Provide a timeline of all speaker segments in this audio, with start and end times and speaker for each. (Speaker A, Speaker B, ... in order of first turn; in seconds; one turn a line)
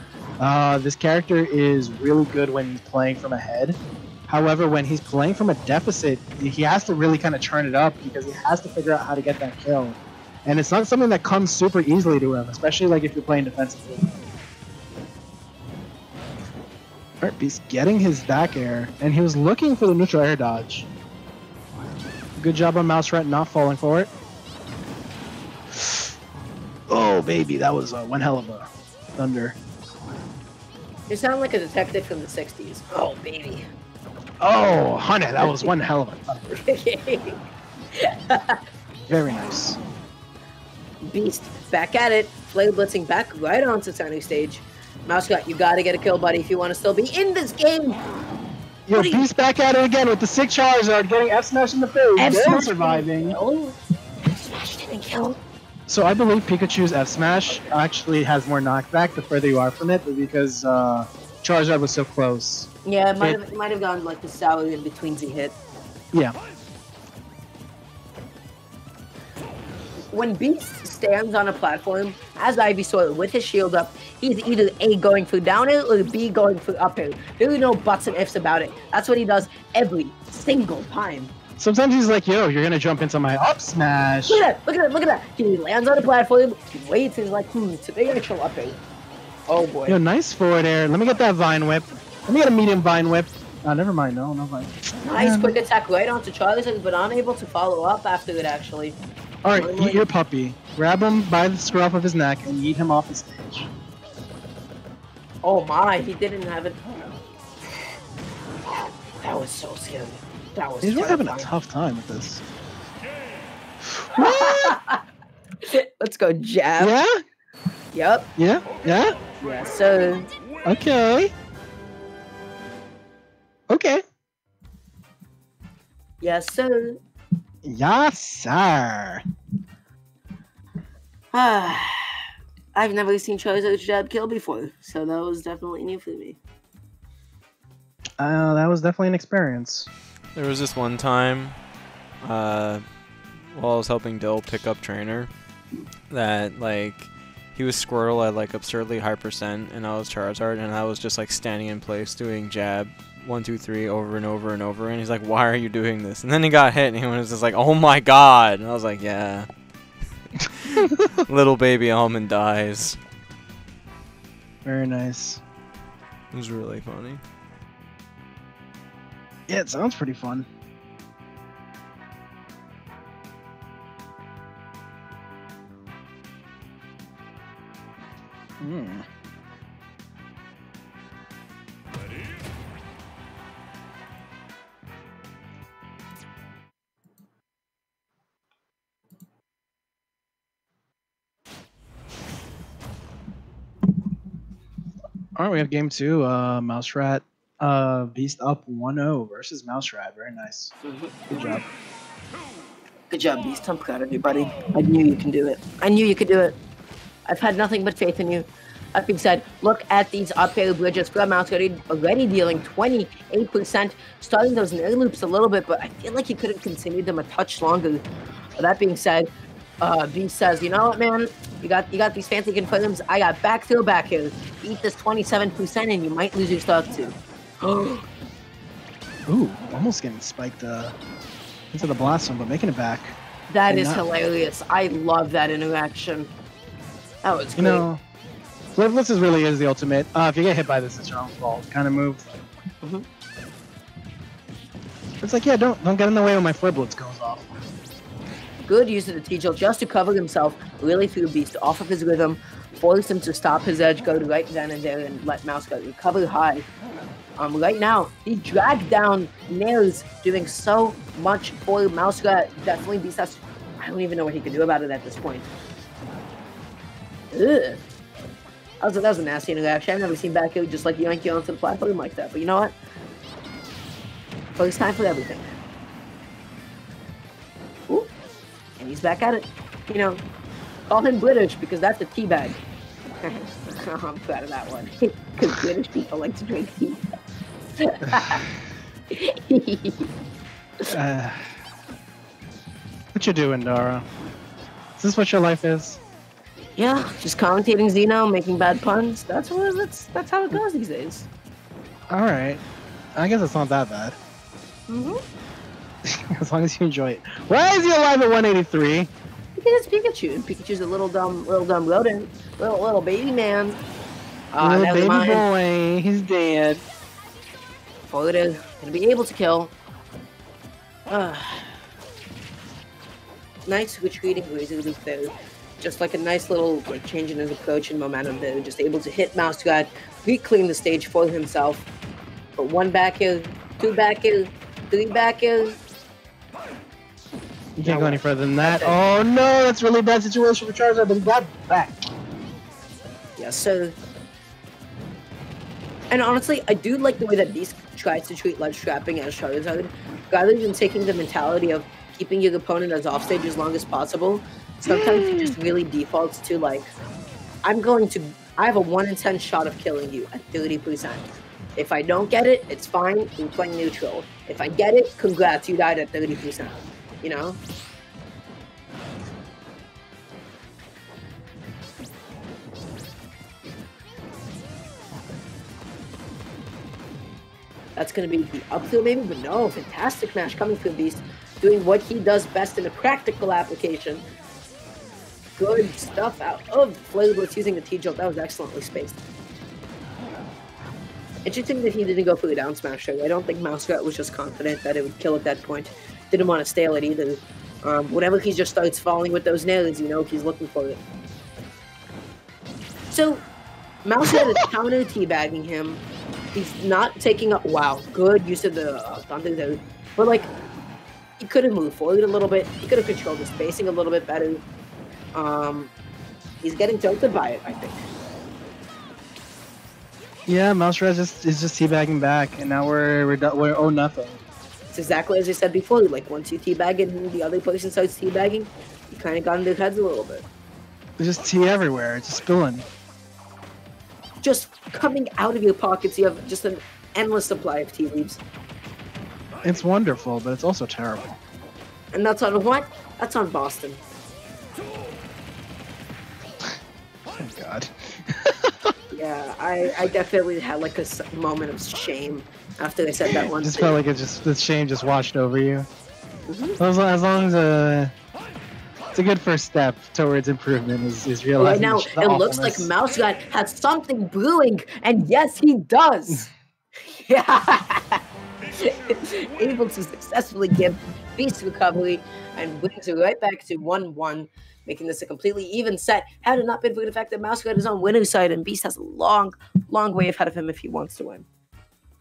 Speaker A: 0.4-14.1
Speaker A: 17.2-20.9
Speaker A: 22.4-24.1
Speaker A: 25.7-26.1
Speaker A: 26.9-29.6
Speaker B: 31.1-33.7
Speaker A: 34.4-36.5
Speaker B: 35.4-35.7
Speaker B: 36.5-37.4
Speaker B: 37.9-38.6
Speaker A: 39.1-39.8
Speaker B: 41.0-48.0
Speaker A: 48.9-53.4
Speaker B: 49.0-49.2
Speaker B: 52.2-55.4
Speaker A: 55.9-63.4
Speaker B: 57.5-57.8
Speaker B: 62.9-65.6
Speaker B: 70.1-81.3
Speaker A: 81.6-84.4
Speaker B: 84.3-88.8
Speaker B: 89.5-90.0
Speaker A: 89.9-95.6
Speaker B: 95.0-99.0
Speaker A: 99.4-103.7
Speaker B: 99.6-100.0
Speaker B: 105.4-106.8
Speaker B: 108.7-111.5
Speaker A: 110.8-112.4
Speaker A: 113.8-114.8
Speaker B: 114.2-115.0
Speaker B: 115.6-117.0
Speaker A: 116.8-117.2
Speaker B: 117.9-118.3
Speaker A: 118.4-119.2
Speaker B: 119.4-120.3
Speaker A: 120.7-121.3
Speaker A: 123.7-124.0
Speaker B: 126.2-127.0
Speaker A: 127.6-129.2
Speaker B: 131.3-132.2
Speaker B: 132.8-136.4
Speaker A: 138.2-139.9
Speaker C: 140.3-141.6
Speaker C: 142.2-145.3
Speaker C: 146.1-159.5
Speaker C: 160.6-163.0
Speaker A: 164.7-165.4
Speaker C: 166.3-167.2
Speaker A: 169.5-170.5
Speaker A: 178.6-179.1
Speaker A: 195.4-200.7
Speaker B: 200.8-201.6
Speaker A: 201.3-201.7
Speaker B: 203.1-206.6
Speaker B: 207.3-218.0
Speaker B: 218.6-219.3
Speaker B: 219.8-228.1
Speaker A: 229.3-230.9
Speaker A: 231.7-233.2
Speaker B: 233.5-236.3
Speaker A: 233.7-234.0
Speaker B: 237.2-237.8
Speaker A: 237.6-238.0
Speaker A: 238.8-242.3
Speaker A: 245.2-247.5
Speaker B: 248.6-256.6
Speaker B: 257.4-265.5
Speaker B: 267.3-267.8
Speaker B: 268.8-272.7
Speaker B: 274.6-275.4
Speaker B: 278.8-280.2
Speaker B: 280.9-282.6
Speaker B: 283.2-287.0
Speaker B: 287.8-288.4
Speaker A: 288.1-288.4
Speaker B: 289.1-290.1
Speaker A: 290.9-291.5
Speaker A: 293.1-294.1
Speaker A: 295.0-296.0
Speaker B: 296.8-301.3
Speaker A: 302.1-302.6
Speaker A: 303.2-304.2
Speaker B: 304.9-305.2
Speaker A: 306.1-309.1
Speaker B: 309.6-313.8
Speaker B: 314.5-315.4
Speaker A: 314.6-316.8
Speaker B: 318.1-319.7
Speaker B: 321.1-321.8
Speaker B: 323.7-331.9
Speaker B: 332.6-335.8
Speaker A: 337.8-342.0
Speaker B: 337.9-339.0
Speaker B: 343.4-343.9
Speaker B: 346.1-356.9
Speaker A: 354.9-355.6
Speaker B: 357.6-367.6
Speaker B: 378.0-384.2
Speaker B: 385.6-389.2
Speaker B: 391.4-401.0
Speaker B: 403.1-403.4
Speaker B: 404.1-406.0
Speaker A: 404.3-404.7
Speaker B: 406.5-410.5
Speaker B: 411.4-414.6
Speaker B: 415.3-415.9
Speaker B: 416.6-418.0
Speaker A: 420.5-424.4
Speaker B: 424.9-430.4
Speaker A: 431.2-432.9
Speaker B: 434.4-438.4
Speaker A: 439.6-441.3
Speaker B: 442.1-444.0
Speaker A: 447.4-448.9
Speaker B: 449.1-454.0
Speaker A: 453.3-455.9
Speaker B: 456.5-456.8
Speaker A: 456.8-458.1
Speaker A: 459.1-462.9
Speaker B: 461.6-466.5
Speaker B: 467.1-468.2
Speaker B: 468.8-481.5